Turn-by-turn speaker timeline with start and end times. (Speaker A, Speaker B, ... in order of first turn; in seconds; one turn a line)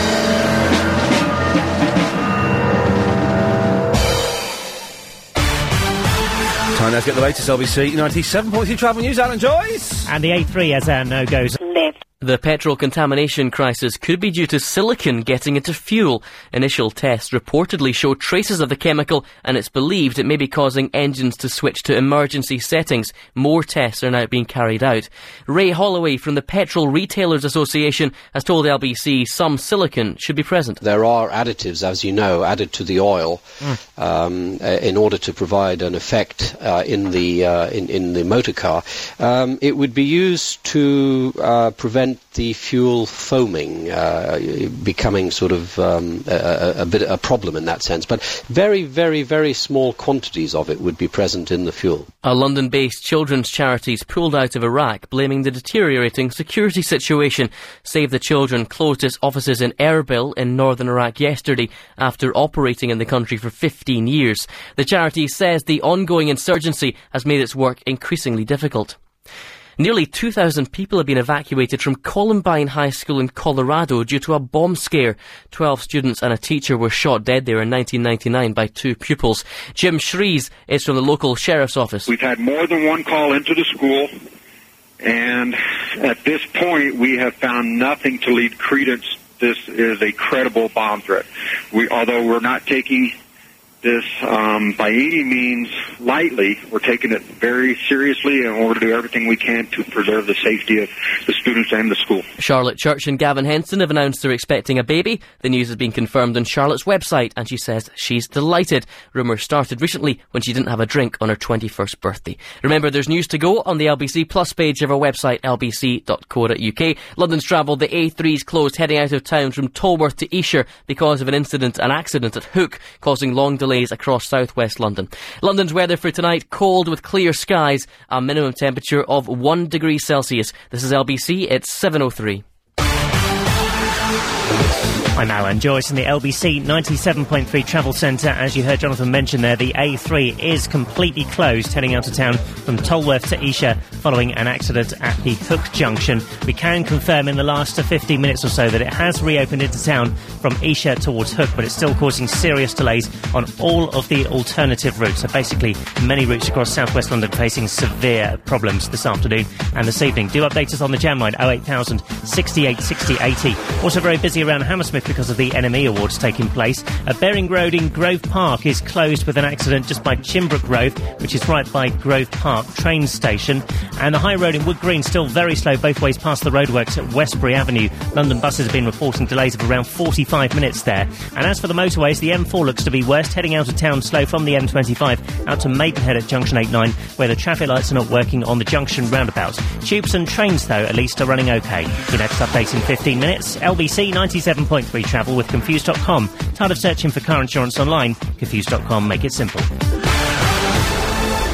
Speaker A: 6.7-10.1
Speaker B: 10.1-11.6
Speaker C: 12.2-30.8
Speaker D: 30.8-33.4
Speaker D: 34.0-52.1
Speaker C: 52.2-69.0
Speaker C: 69.8-82.1
Speaker E: 82.0-84.1
Speaker E: 85.0-93.1
Speaker E: 93.8-102.2
Speaker C: 102.4-132.4
Speaker B: 135.2-199.7